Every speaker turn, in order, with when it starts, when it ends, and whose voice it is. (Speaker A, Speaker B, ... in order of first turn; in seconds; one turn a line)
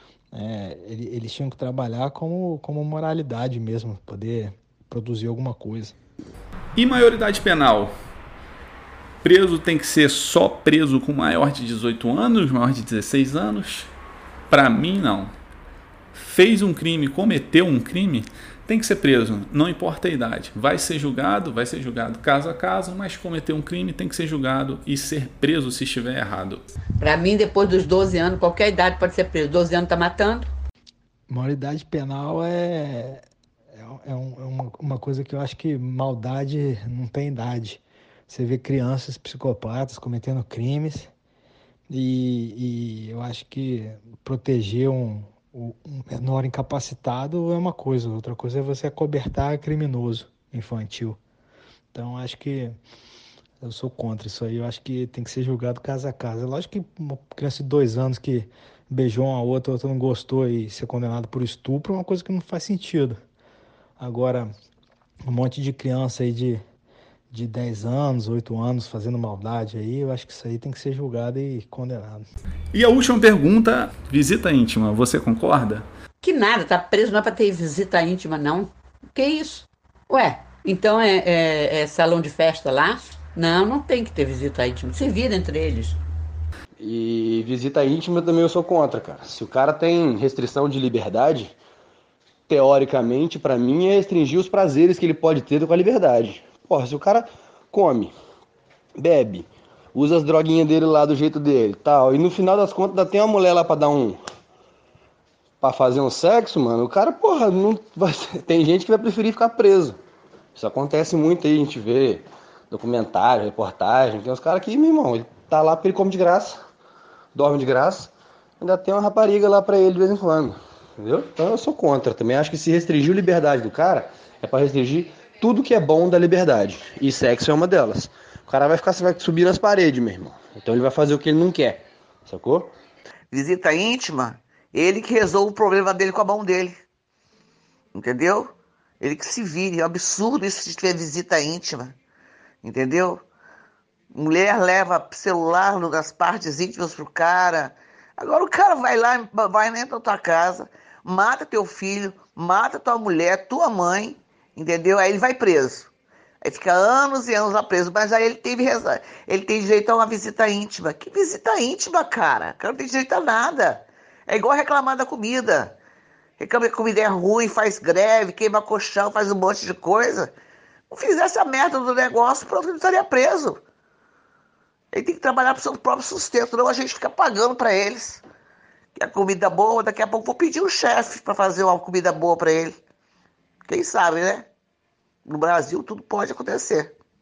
Speaker A: 0.3-5.9
Speaker B: 6.8-7.9
Speaker B: 9.2-13.9
Speaker B: 14.5-15.3
Speaker B: 16.1-26.6
Speaker C: 27.0-30.5
Speaker A: 31.3-33.2
Speaker A: 33.8-41.1
Speaker A: 41.9-51.2
Speaker A: 51.9-52.8
Speaker A: 53.6-63.2
Speaker A: 64.0-64.5
Speaker A: 65.2-66.6
Speaker A: 67.3-72.3
Speaker B: 72.7-75.9
Speaker C: 76.2-86.0
Speaker D: 86.8-91.5
Speaker D: 92.5-98.1
Speaker D: 99.0-104.2
Speaker D: 105.6-110.0
Speaker D: 110.5-116.6
Speaker D: 117.3-132.7
Speaker E: 133.3-136.8
Speaker E: 137.9-141.9
Speaker E: 142.6-143.2
Speaker E: 144.1-155.9
Speaker E: 156.4-165.8
Speaker E: 166.4-170.3
Speaker E: 170.9-173.6
Speaker E: 174.9-178.2
Speaker E: 178.9-182.8
Speaker E: 183.6-184.5
Speaker E: 185.2-186.9